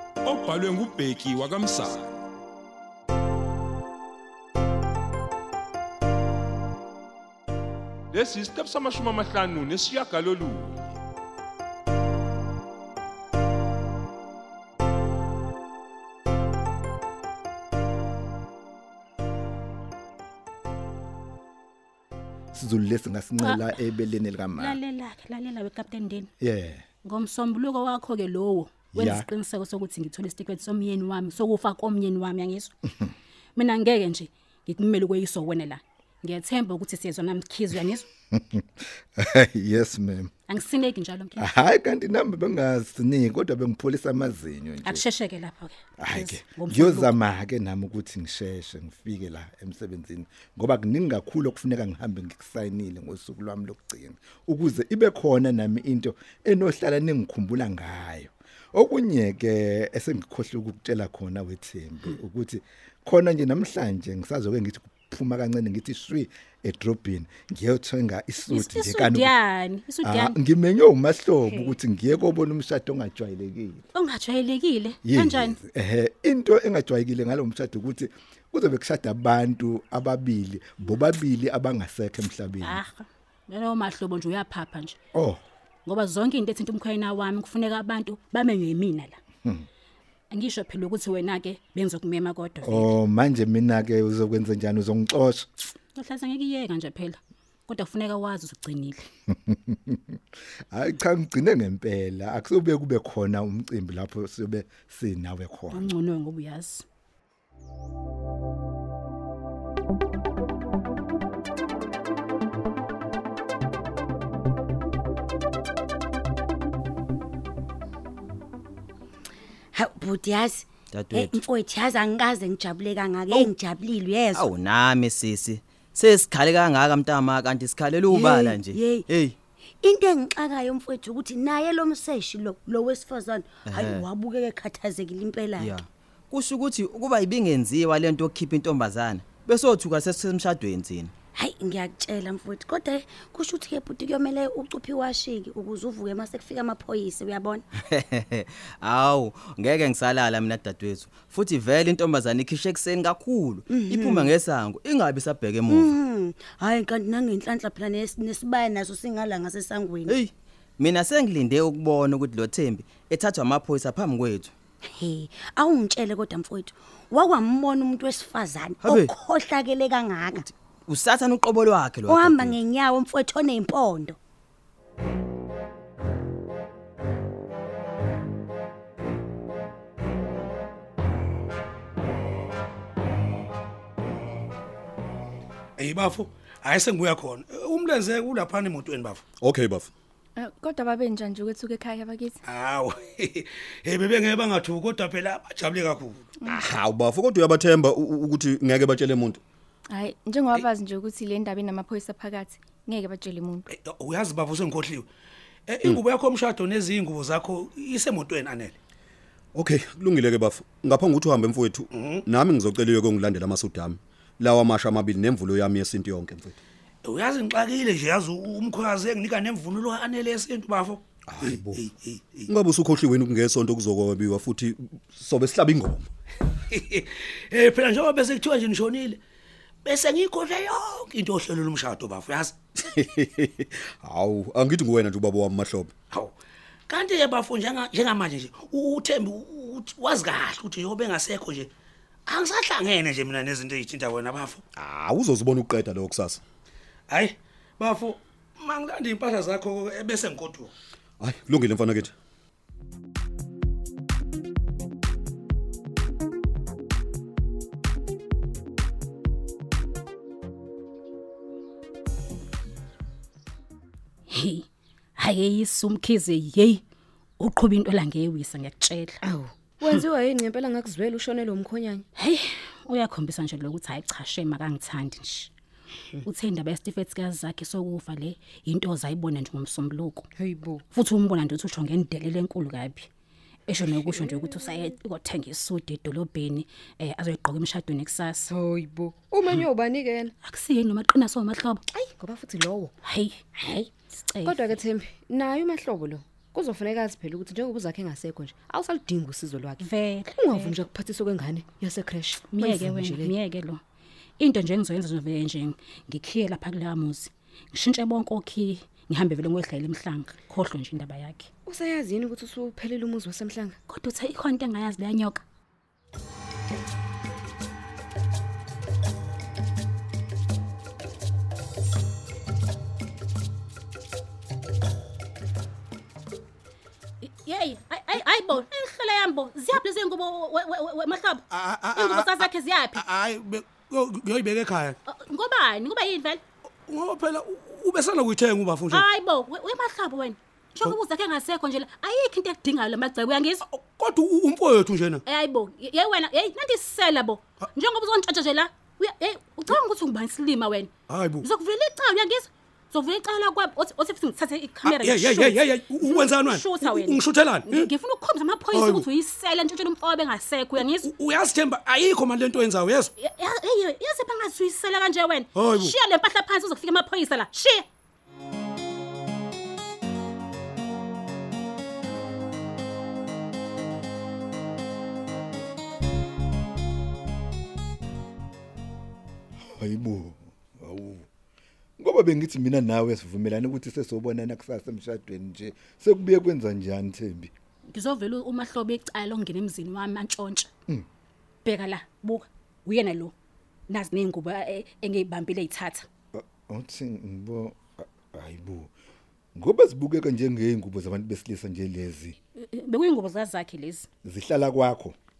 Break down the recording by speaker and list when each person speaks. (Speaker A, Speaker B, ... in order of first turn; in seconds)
Speaker A: 0.2-2.1, 8.1-10.7
Speaker B: 22.5-24.8, 26.4-26.8, 28.9-29.3, 38.3-38.6, 39.2-40.3, 41.4-45.0, 46.0-69.3, 70.0-73.8, 75.0-82.8, 85.1-85.4, 92.6-95.5, 99.3-100.2, 100.7-105.9, 379.6-381.2, 382.0-387.5, 396.3-398.9, 399.6-402.4, 404.2-405.1
Speaker C: 23.4-23.8, 24.6-26.3, 27.0-32.7, 33.5-38.1, 40.5-41.5, 44.8-47.1, 68.5-70.3, 73.9-75.6, 82.6-85.0, 85.8-89.2, 90.3-92.9, 95.9-99.1, 105.7-106.8, 264.3-266.8, 267.4-269.2, 272.1-275.5, 276.2-280.3, 280.9-283.1, 283.7-288.5, 290.4-291.8, 293.0-294.8, 299.8-300.8, 302.5-303.8, 304.4-311.5, 313.9-315.4, 327.2-333.0, 335.1-336.4, 338.9-343.6, 345.2-361.1, 363.2-367.9, 387.9-390.7, 391.6-393.3, 393.9-396.1, 402.7-404.1
Speaker D: 119.7-124.5, 128.1-129.1, 129.8-135.7, 141.3-147.6, 153.7-154.3, 155.7-160.1, 165.0-170.4, 172.1-174.2
Speaker E: 120.9-121.5, 124.3-129.3, 133.6-134.1, 135.6-141.1, 147.9-156.0, 156.5-156.9, 160.1-164.5, 168.8-169.1, 170.4-172.6
Speaker F: 185.8-189.2, 192.4-196.3, 203.7-205.1, 205.7-208.8, 211.9-212.2, 217.0-222.5, 226.7-229.2, 229.8-232.5, 236.9-241.7, 242.3-244.6, 247.1-250.7, 331.5-335.0, 336.9-339.1, 343.6-345.2, 351.1-351.4, 354.8-357.9, 358.7-359.0, 360.8-363.1, 365.5-365.9
Speaker G: 189.4-189.9, 196.5-199.4, 209.5-216.6, 221.3-221.8, 222.5-226.1, 232.9-235.9, 244.8-246.4, 251.2-252.1
Speaker H: 190.3-192.3, 196.4-196.7, 199.9-203.7
Speaker I: 269.2-272.0, 280.4-280.8, 284.0-284.8, 288.5-290.3, 291.9-292.9, 294.4-299.8, 300.4-303.4, 311.6-313.8